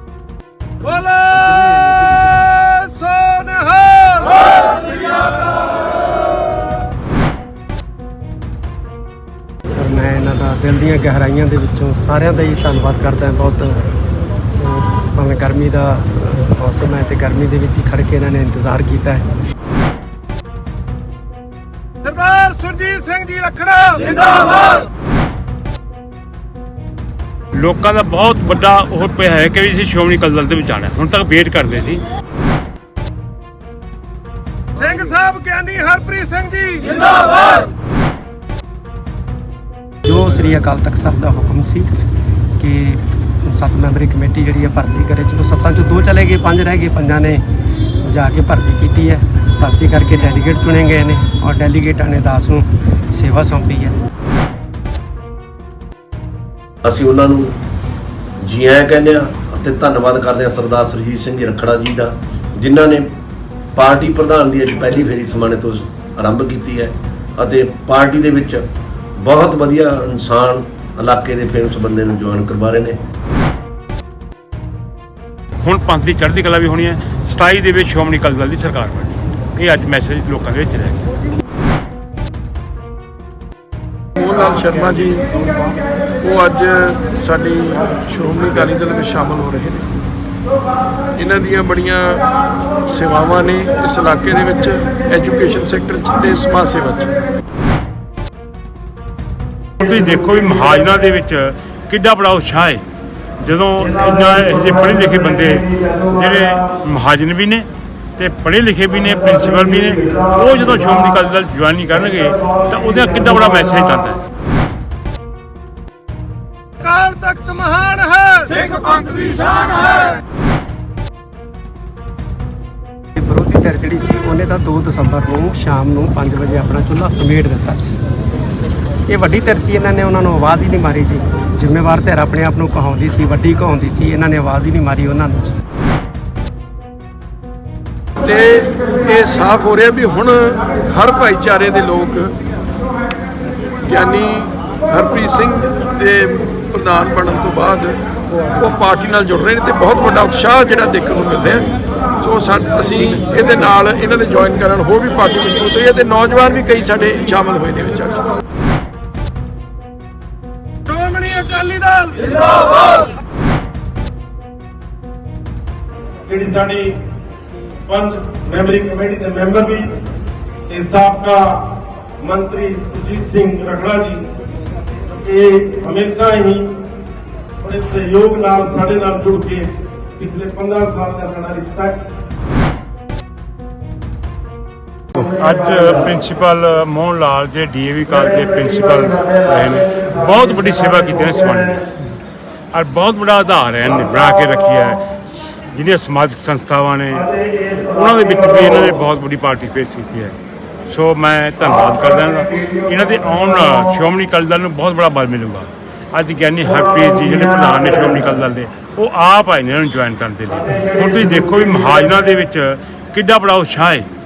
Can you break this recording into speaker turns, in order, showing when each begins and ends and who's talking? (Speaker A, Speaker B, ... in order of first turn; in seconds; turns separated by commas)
Speaker A: 0.8-4.8, Speaker B: 9.8-13.9, Speaker B: 14.6-19.3, Speaker A: 22.0-24.7, Speaker C: 27.6-32.0, Speaker A: 34.8-37.6, Speaker B: 40.0-41.9, Speaker B: 42.6-47.4, Speaker B: 48.0-54.0, Speaker D: 56.9-57.5, Speaker D: 58.4-63.1, Speaker D: 63.8-68.6, Speaker D: 69.2-73.0, Speaker C: 75.6-81.0, Speaker E: 84.2-85.4, Speaker E: 86.2-89.9, Speaker E: 91.2-92.2, Speaker E: 92.9-97.2, Speaker C: 99.8-102.8, Speaker C: 103.4-107.7, Speaker C: 108.2-114.2, Speaker A: 116.8-120.0, Speaker B: 123.2-128.0, Speaker B: 129.1-135.6, Speaker E: 138.2-142.3, Speaker E: 143.9-148.0, Speaker E: 148.6-151.7, Speaker E: 152.2-158.3, Speaker A: 160.9-162.4, Speaker F: 166.3-166.9, Speaker F: 167.9-169.9, Speaker F: 170.7-171.6, Speaker F: 172.2-174.2, Speaker F: 175.2-176.7, Speaker F: 177.6-179.7, Speaker F: 180.2-182.0, Speaker C: 185.2-191.8, Speaker C: 192.7-195.0, Speaker C: 195.7-200.4, Speaker C: 200.9-214.1